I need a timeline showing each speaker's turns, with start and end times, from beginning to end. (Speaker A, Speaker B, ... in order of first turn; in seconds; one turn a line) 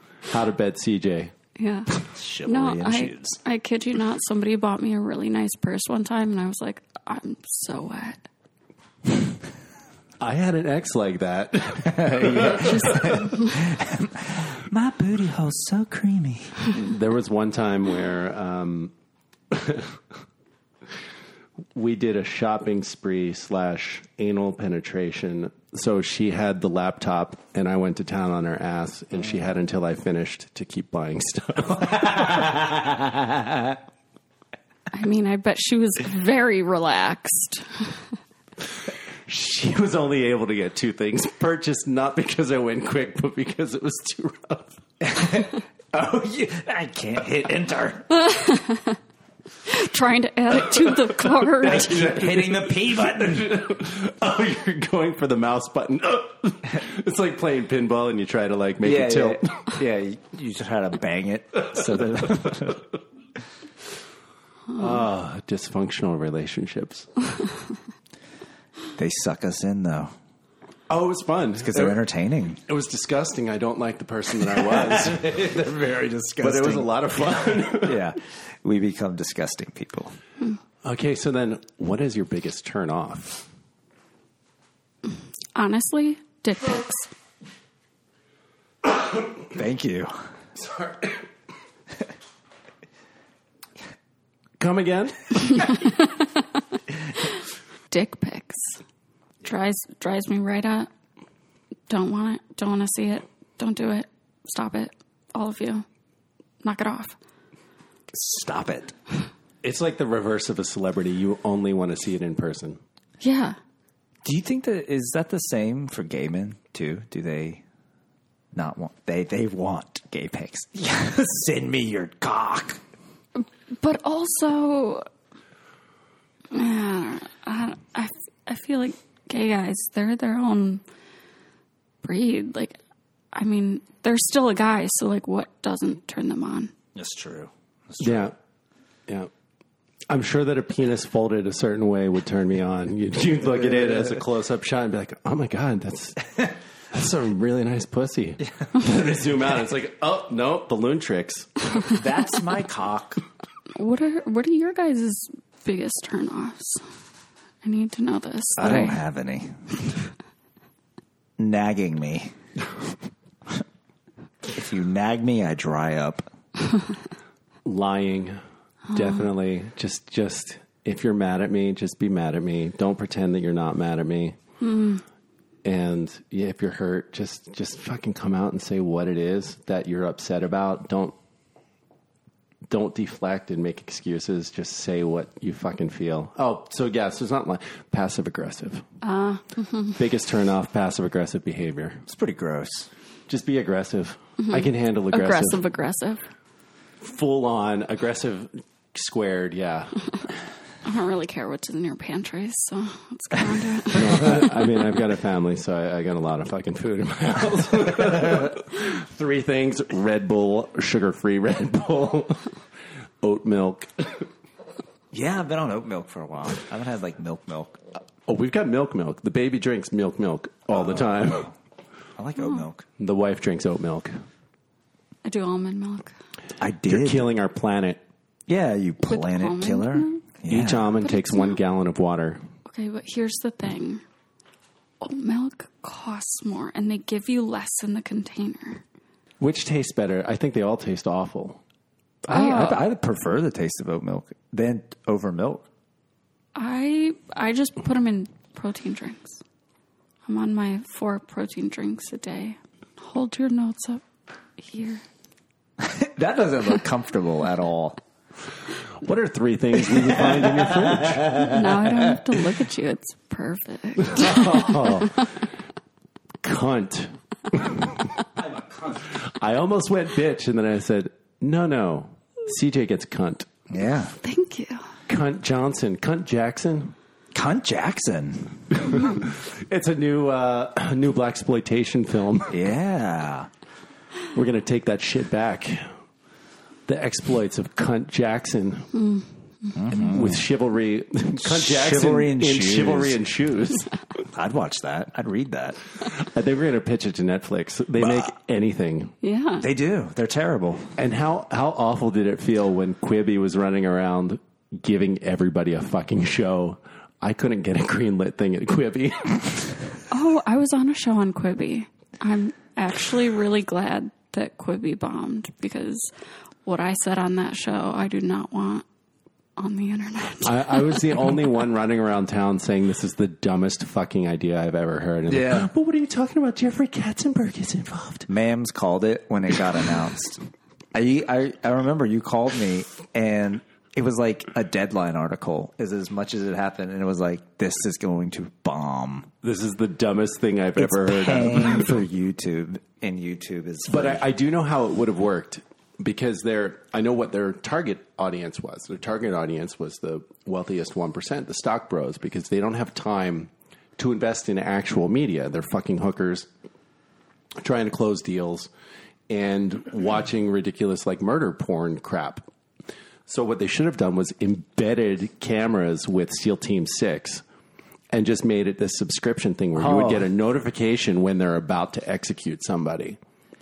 Speaker A: 0.3-1.3
Speaker B: 1.6-1.9
Speaker C: 2.1-3.4
Speaker B: 2.5-8.2
Speaker A: 10.2-13.2
Speaker C: 11.9-16.6
Speaker B: 12.6-13.6
Speaker A: 16.7-18.9
Speaker A: 19.5-20.0
Speaker A: 21.8-32.8
Speaker B: 34.9-38.0
Speaker A: 39.3-44.8
Speaker C: 45.0-48.1
Speaker B: 48.1-49.0
Speaker B: 49.7-52.1
Speaker A: 51.5-59.4
Speaker C: 51.6-53.7
Speaker C: 58.8-62.8
Speaker A: 61.7-62.7
Speaker A: 64.8-67.1
Speaker C: 69.0-70.1
Speaker A: 70.9-72.0
Speaker C: 71.6-72.6
Speaker A: 72.7-75.5
Speaker C: 74.5-80.2
Speaker A: 76.4-78.0
Speaker A: 80.8-83.5
Speaker B: 85.5-87.1
Speaker C: 89.5-90.2
Speaker A: 90.6-91.2
Speaker A: 94.6-95.8
Speaker B: 95.5-96.4
Speaker B: 97.9-98.8
Speaker B: 99.4-100.9
Speaker B: 101.9-105.8
Speaker B: 106.6-107.2
Speaker C: 108.1-108.9
Speaker A: 109.6-112.8
Speaker B: 113.2-113.6
Speaker C: 114.2-117.6
Speaker C: 118.5-122.8
Speaker B: 123.4-125.1
Speaker B: 126.5-130.8
Speaker B: 132.0-132.8
Speaker B: 133.3-136.7
Speaker C: 136.9-138.3
Speaker A: 138.0-138.3
Speaker A: 140.1-151.5
Speaker C: 143.6-144.2
Speaker C: 151.9-153.2
Speaker B: 153.8-156.8
Speaker B: 157.6-159.0
Speaker C: 158.6-159.6
Speaker C: 161.4-162.3
Speaker C: 164.5-166.3
Speaker A: 167.7-168.4
Speaker B: 168.9-169.3
Speaker A: 168.9-174.4
Speaker B: 174.6-175.0
Speaker A: 175.6-181.2
Speaker A: 182.7-188.8
Speaker B: 189.0-190.0
Speaker A: 190.0-192.0
Speaker C: 192.1-192.9
Speaker A: 193.3-195.6
Speaker B: 194.4-196.3
Speaker A: 197.0-199.9
Speaker B: 200.8-204.6
Speaker A: 203.9-212.4
Speaker A: 213.2-214.3
Speaker C: 215.1-217.8
Speaker A: 218.3-221.5
Speaker C: 220.7-221.5
Speaker C: 222.2-222.9
Speaker B: 222.4-222.7
Speaker A: 223.0-224.2
Speaker B: 225.2-226.2
Speaker C: 226.6-227.3
Speaker A: 226.9-228.0
Speaker C: 228.5-231.0
Speaker B: 229.1-230.3
Speaker A: 230.5-232.4
Speaker B: 231.0-231.6
Speaker B: 232.7-234.0
Speaker B: 235.0-238.8
Speaker A: 239.4-241.6
Speaker C: 242.3-245.7
Speaker B: 242.3-242.8
Speaker B: 246.6-249.4
Speaker B: 250.3-254.0
Speaker B: 254.6-255.0
Speaker C: 255.8-258.0
Speaker A: 259.0-261.6
Speaker C: 260.0-261.4
Speaker B: 261.4-265.2
Speaker A: 264.0-265.2
Speaker A: 266.4-268.0
Speaker C: 268.4-269.2
Speaker A: 269.2-273.5
Speaker C: 273.7-274.1
Speaker B: 274.2-274.9
Speaker A: 275.1-276.9
Speaker C: 277.3-278.8
Speaker A: 278.8-282.5
Speaker C: 282.5-283.5
Speaker A: 284.3-285.9
Speaker A: 286.9-288.9
Speaker B: 288.9-289.8
Speaker C: 289.8-290.5
Speaker A: 289.9-293.9
Speaker C: 291.4-293.2
Speaker C: 294.3-295.8
Speaker A: 296.2-299.1
Speaker C: 298.0-298.3
Speaker B: 299.2-299.7
Speaker C: 299.6-300.9
Speaker A: 301.0-309.7
Speaker B: 310.1-316.1
Speaker B: 316.6-318.9
Speaker B: 319.6-321.3
Speaker A: 320.4-328.3
Speaker C: 325.3-325.7
Speaker C: 328.3-330.4
Speaker C: 330.9-339.3
Speaker A: 339.4-341.9
Speaker C: 340.8-344.2
Speaker A: 343.9-356.5
Speaker A: 357.6-358.7
Speaker A: 359.3-362.5
Speaker A: 363.3-367.4
Speaker A: 368.1-373.2
Speaker C: 369.8-370.3